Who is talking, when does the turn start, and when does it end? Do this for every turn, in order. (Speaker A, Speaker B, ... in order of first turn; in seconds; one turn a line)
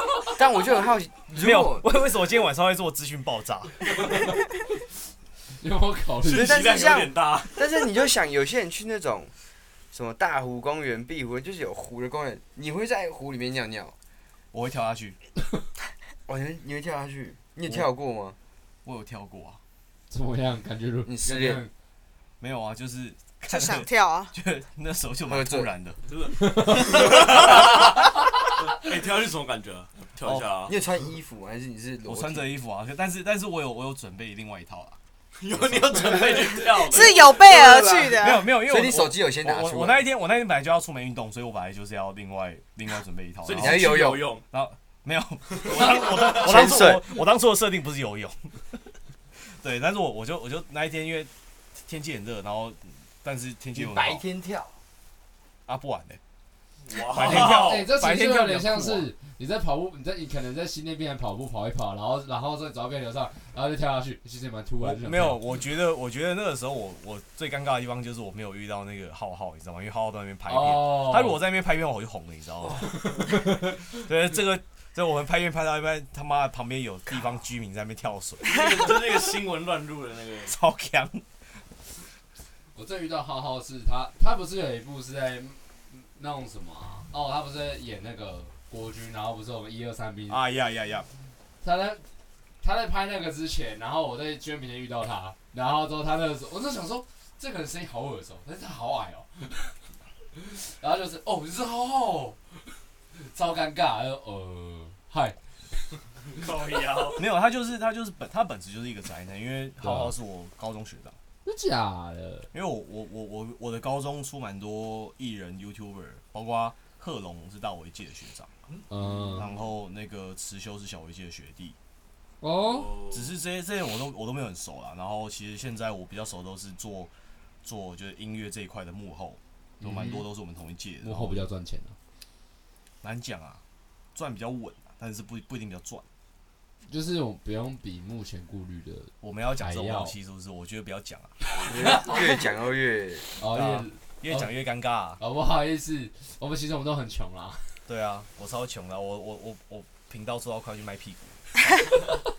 Speaker A: 0.3-1.9
Speaker B: 1.4-3.8
Speaker C: 5.6-6.7
Speaker D: 6.2-7.8
Speaker A: 6.3-9.3
Speaker A: 9.9-13.9
Speaker B: 14.5-15.2
Speaker A: 16.3-18.4
Speaker B: 18.8-19.6
Speaker C: 20.1-21.7
Speaker A: 21.0-21.6
Speaker B: 22.4-26.0
Speaker E: 23.5-24.3
Speaker A: 25.3-25.7
Speaker D: 26.1-30.8
Speaker C: 26.4-27.1
Speaker B: 26.9-27.8
Speaker B: 30.2-30.5
Speaker A: 30.6-32.5
Speaker B: 32.0-35.0
Speaker D: 35.4-37.4
Speaker E: 36.9-38.5
Speaker B: 38.1-44.0
Speaker A: 38.6-40.0
Speaker D: 43.4-44.4
Speaker A: 43.6-44.4
Speaker B: 44.5-48.8
Speaker D: 45.5-46.4
Speaker A: 46.0-47.1
Speaker B: 49.4-54.2
Speaker A: 53.7-54.8
Speaker B: 55.7-56.2
Speaker D: 56.8-57.9
Speaker B: 57.0-59.1
Speaker C: 57.2-65.4
Speaker B: 64.8-79.0
Speaker C: 70.5-71.4
Speaker C: 72.9-73.8
Speaker D: 78.4-80.5
Speaker B: 80.5-81.2
Speaker C: 82.7-90.4
Speaker B: 90.3-91.1
Speaker C: 91.6-92.0
Speaker C: 92.6-99.7
Speaker C: 100.3-102.5
Speaker C: 103.1-105.4
Speaker D: 106.3-107.2
Speaker B: 107.2-111.2
Speaker C: 109.8-110.1
Speaker C: 111.4-112.5
Speaker B: 112.5-118.5
Speaker D: 118.7-119.5
Speaker C: 118.9-119.5
Speaker B: 119.3-121.8
Speaker C: 122.4-123.0
Speaker D: 122.7-123.3
Speaker B: 123.1-127.1
Speaker B: 127.6-131.5
Speaker C: 129.8-130.3
Speaker C: 131.0-131.9
Speaker B: 133.0-133.6
Speaker B: 134.1-136.1
Speaker C: 136.8-140.1
Speaker B: 139.2-141.4
Speaker C: 141.5-142.2
Speaker A: 141.6-143.3
Speaker C: 143.3-144.5
Speaker B: 143.5-145.2
Speaker C: 145.2-147.8
Speaker B: 147.9-151.8